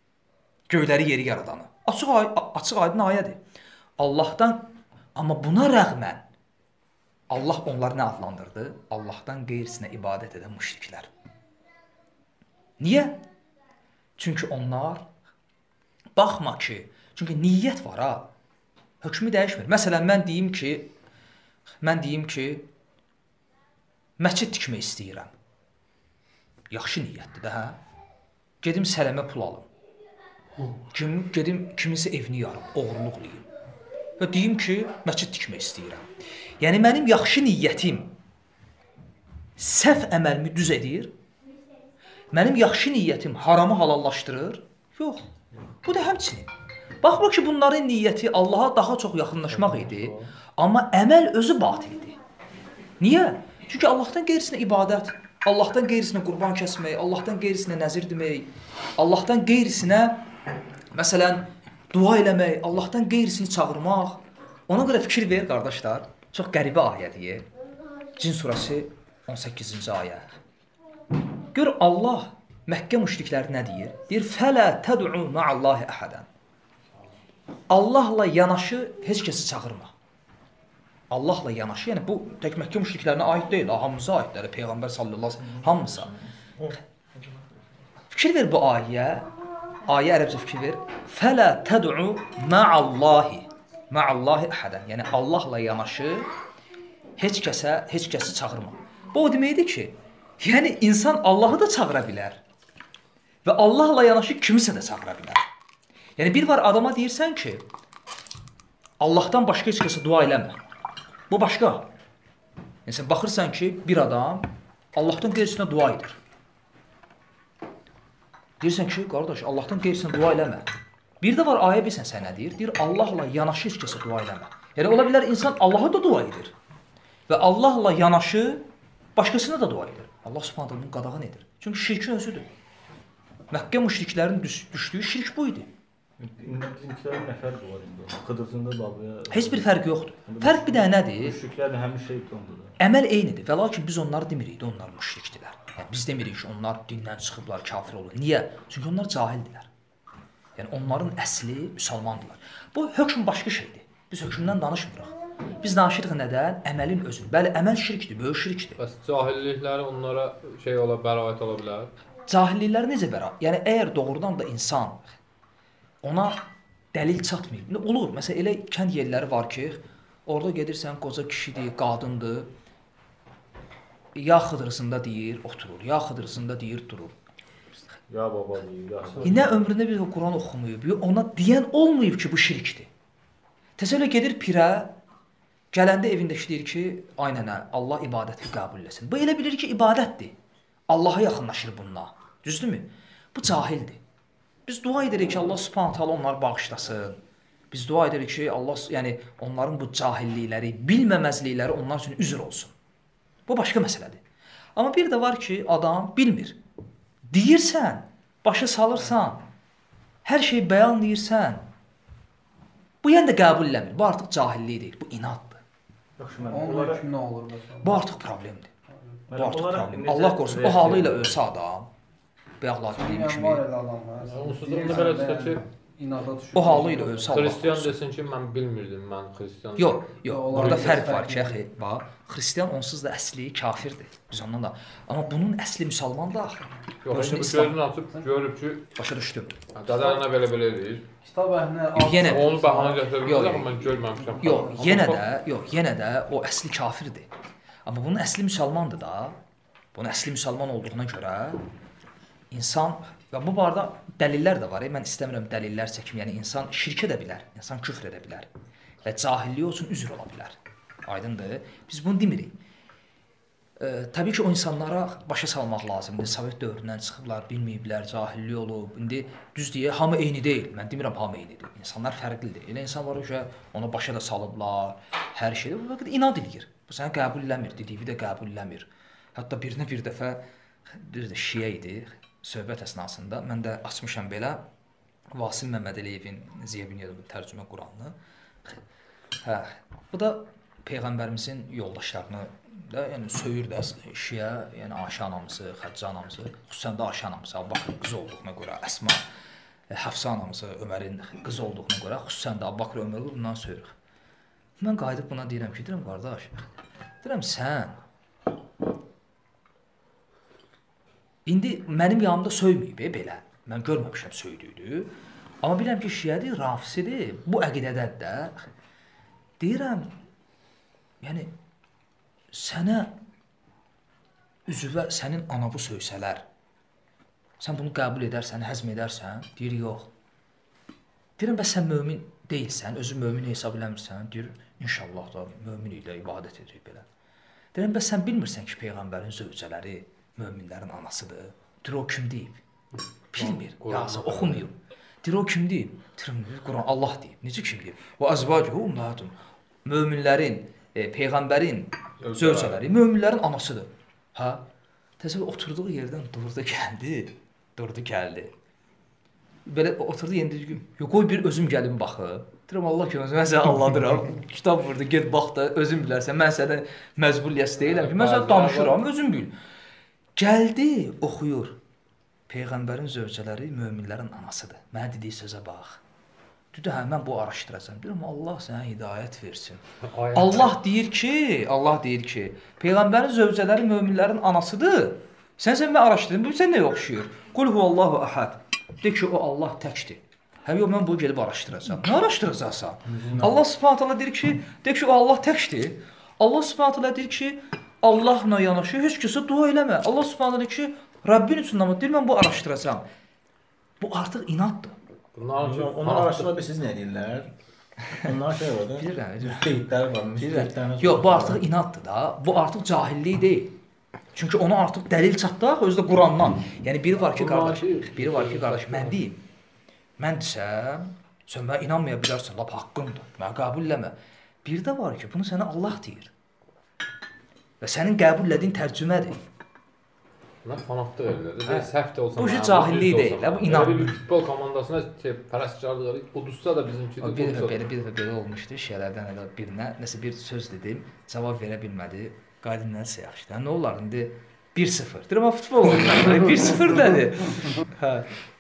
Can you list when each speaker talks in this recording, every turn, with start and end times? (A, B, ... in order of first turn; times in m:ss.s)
0:00.7-0:03.4 A
0:04.0-0:04.6 A
0:05.1-0:06.2 A
0:07.3-0:11.1 A
0:12.8-0:13.2 A
0:14.2-0:15.0 A
0:16.2-0:18.3 A
0:19.0-0:20.9 A
0:21.8-0:22.7 A
0:24.2-0:25.3 A
0:26.7-0:27.8 A
0:28.6-0:29.7 A
0:30.9-0:33.4 A
0:34.2-0:36.0 A
0:36.6-0:38.1 A
0:39.6-0:41.1 A
0:42.3-0:45.2 A
0:45.8-0:46.5 A
0:47.0-0:52.2 A
0:49.6-0:50.3 B
0:53.0-1:00.2 A
1:00.9-1:07.4 A
1:08.2-1:10.3 A
1:11.5-1:16.3 A
1:17.7-1:19.9 A
1:21.1-1:26.1 A
1:25.5-1:27.5 B
1:28.1-1:29.3 A
1:29.9-1:36.3 A
1:37.2-1:42.4 A
1:43.4-1:45.4 A
1:46.2-1:47.6 A
1:49.0-1:50.6 A
1:51.3-1:51.8 A
1:52.8-1:56.2 A
1:58.6-2:00.6 A
2:01.2-2:06.5 A
2:07.3-2:08.6 A
2:09.2-2:12.5 A
2:13.5-2:15.7 A
2:16.2-2:22.8 B
2:19.3-2:21.4 A
2:22.8-2:29.7 A
2:30.6-2:38.8 A
2:38.8-2:41.9 C
2:42.3-2:45.1 A
2:46.0-2:46.4 A
2:46.9-2:52.5 A
2:54.1-2:57.1 A
2:58.1-2:59.6 B
2:59.2-3:02.9 A
3:03.8-3:04.9 A
3:05.7-3:10.3 A
3:10.9-3:14.0 A
3:14.7-3:17.2 A
3:17.7-3:22.7 A
3:23.5-3:24.2 A
3:24.8-3:26.6 A
3:27.3-3:29.4 A
3:30.2-3:31.6 A
3:33.0-3:35.6 A
3:36.2-3:37.0 B
3:36.5-3:38.0 D
3:37.8-3:38.7 A
3:39.3-3:41.4 B
3:39.3-3:41.9 A
3:42.6-3:43.6 A
3:42.9-3:47.3 D
3:44.2-3:45.6 C
3:46.5-3:48.0 A
3:47.3-3:51.1 C
3:49.8-3:57.8 A
3:50.2-3:51.6 D
3:57.0-3:58.8 C
3:59.0-3:59.6 A
3:59.7-4:01.0 C
4:01.2-4:03.0 D
4:01.9-4:02.5 A
4:02.2-4:05.2 C
4:03.2-4:03.7 A
4:04.1-4:04.9 D
4:04.4-4:07.3 A
4:07.8-4:09.4 A
4:09.9-4:11.6 A
4:12.5-4:18.5 A
4:19.0-4:20.5 A
4:21.0-4:22.6 A
4:23.8-4:44.6 A
4:45.3-4:48.1 A
4:49.4-4:59.2 A
4:59.9-5:03.9 A
5:04.8-5:06.6 A
5:07.2-5:08.0 A
5:11.4-5:15.1 A
5:15.6-5:18.6 A
5:19.6-5:20.1 A
5:21.2-5:21.5 A
5:22.5-5:23.1 A
5:24.7-5:26.4 A
5:27.6-5:30.1 A
5:31.4-5:37.0 A
5:37.7-5:42.6 A
5:43.0-5:44.6 C
5:43.3-5:54.6 A
5:52.2-5:52.9 C
5:55.2-5:58.5 A
5:59.6-6:09.5 A
6:07.8-6:09.0 C
6:10.4-6:11.8 A
6:12.5-6:16.0 A
6:16.7-6:43.0 A
6:20.0-6:20.7 C
6:33.1-6:33.6 B
6:44.0-6:45.0 A
6:45.3-6:46.5 C
6:45.6-6:47.5 B
6:48.1-6:51.7 B
6:49.0-6:53.7 A
6:54.3-6:59.4 A
6:57.2-6:59.2 C
7:00.2-7:06.3 A
7:07.8-7:09.4 A
7:10.6-7:17.8 C
7:11.6-7:14.2 A
7:17.2-7:28.2 A